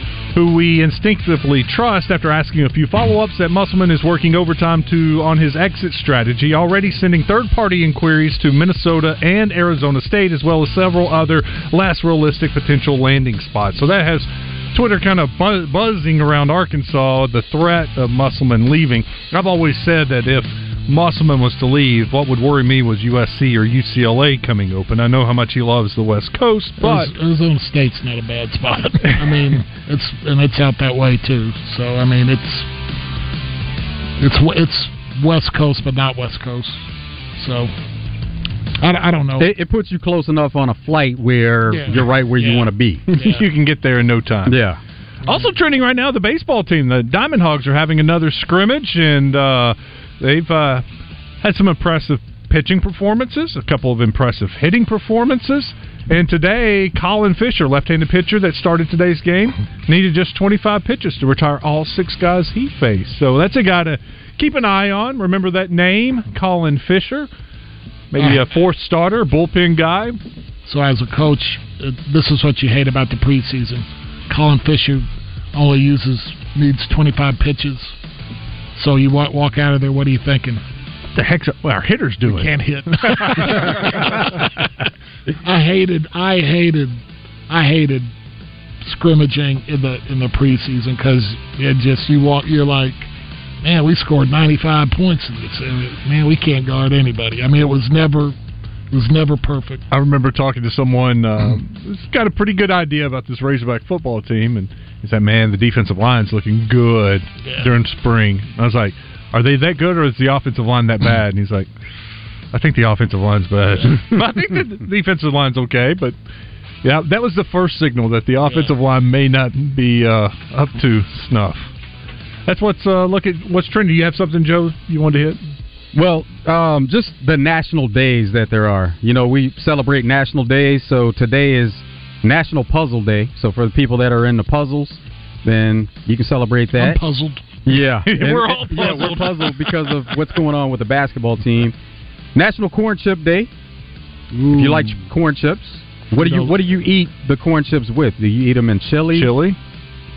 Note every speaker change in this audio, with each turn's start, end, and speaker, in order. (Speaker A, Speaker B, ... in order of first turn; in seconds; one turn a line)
Speaker A: 0.3-27.1
Speaker B: 26.8-32.7
Speaker B: 34.2-36.9
Speaker B: 37.4-37.7
Speaker B: 38.8-39.5
Speaker C: 39.4-43.1
Speaker B: 41.7-43.4
Speaker A: 43.2-44.6
Speaker C: 44.5-44.8
Speaker A: 45.2-50.8
Speaker A: 51.4-67.3
Speaker A: 68.1-70.2
Speaker B: 68.2-68.4
Speaker B: 70.7-78.0
Speaker B: 78.7-80.6
Speaker A: 81.1-82.5
Speaker B: 82.3-84.7
Speaker A: 83.1-84.3
Speaker B: 85.4-88.1
Speaker B: 88.8-93.1
Speaker B: 93.6-98.4
Speaker B: 98.9-99.8
Speaker A: 99.9-111.7
Speaker B: 107.4-107.7
Speaker A: 112.5-116.2
Speaker A: 116.8-121.7
Speaker B: 118.5-118.7
Speaker A: 122.5-125.4
Speaker C: 125.9-137.0
Speaker B: 136.7-137.6
Speaker C: 137.7-141.7
Speaker A: 138.1-139.9
Speaker C: 142.3-143.5
Speaker B: 144.3-145.0
Speaker C: 144.6-149.3
Speaker B: 146.2-146.6
Speaker A: 149.1-149.6